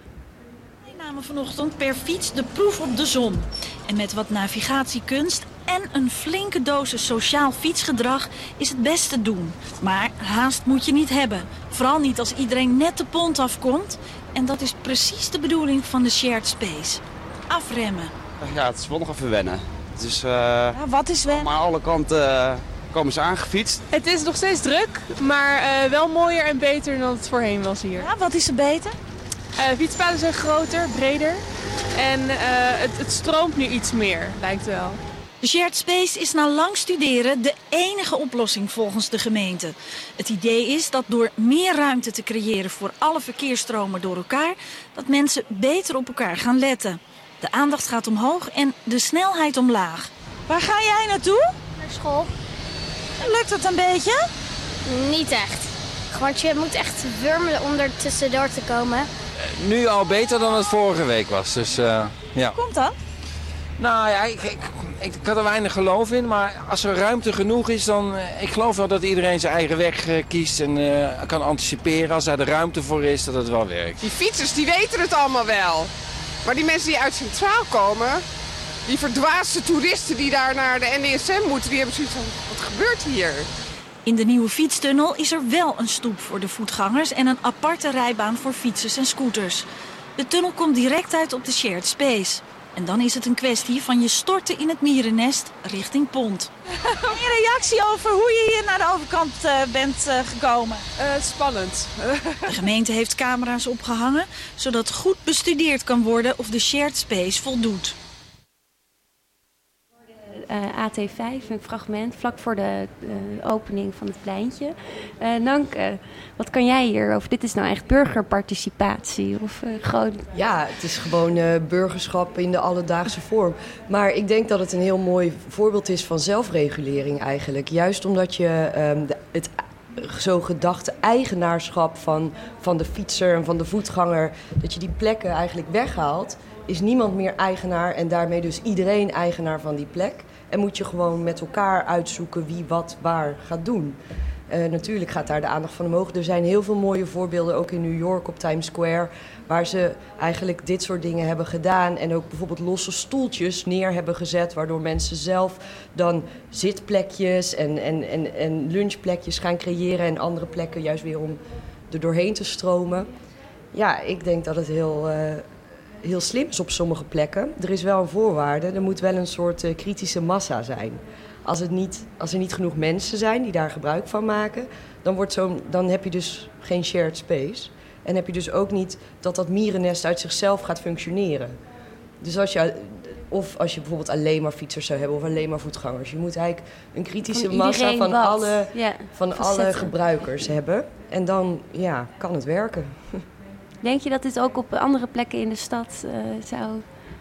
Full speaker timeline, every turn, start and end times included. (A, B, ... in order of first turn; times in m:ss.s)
0:00.8-0:18.1 A
0:18.4-0:23.8 B
0:20.8-0:21.5 A
0:23.9-0:28.1 C
0:28.0-0:29.0 A
0:29.6-0:31.4 C
0:31.9-0:35.0 C
0:35.4-0:51.6 A
0:51.8-0:52.3 D
0:53.2-0:54.2 A
0:54.9-0:59.1 D
0:59.5-1:02.5 E
1:02.5-1:03.0 A
1:03.8-1:14.0 E
1:14.0-1:15.9 F
1:16.4-1:18.2 F
1:18.9-1:23.5 F
1:24.0-1:29.7 A
1:30.2-1:36.5 A
1:37.0-1:40.8 A
1:41.0-1:42.4 F
1:42.5-1:48.0 A
1:50.3-2:00.3 G
2:00.3-2:24.0 H
2:24.5-2:41.4 H
2:41.9-2:43.1 H
2:43.7-2:45.5 H
2:46.0-3:01.6 H
3:02.2-3:13.2 H
3:07.3-3:10.0 G
3:13.8-3:16.8 G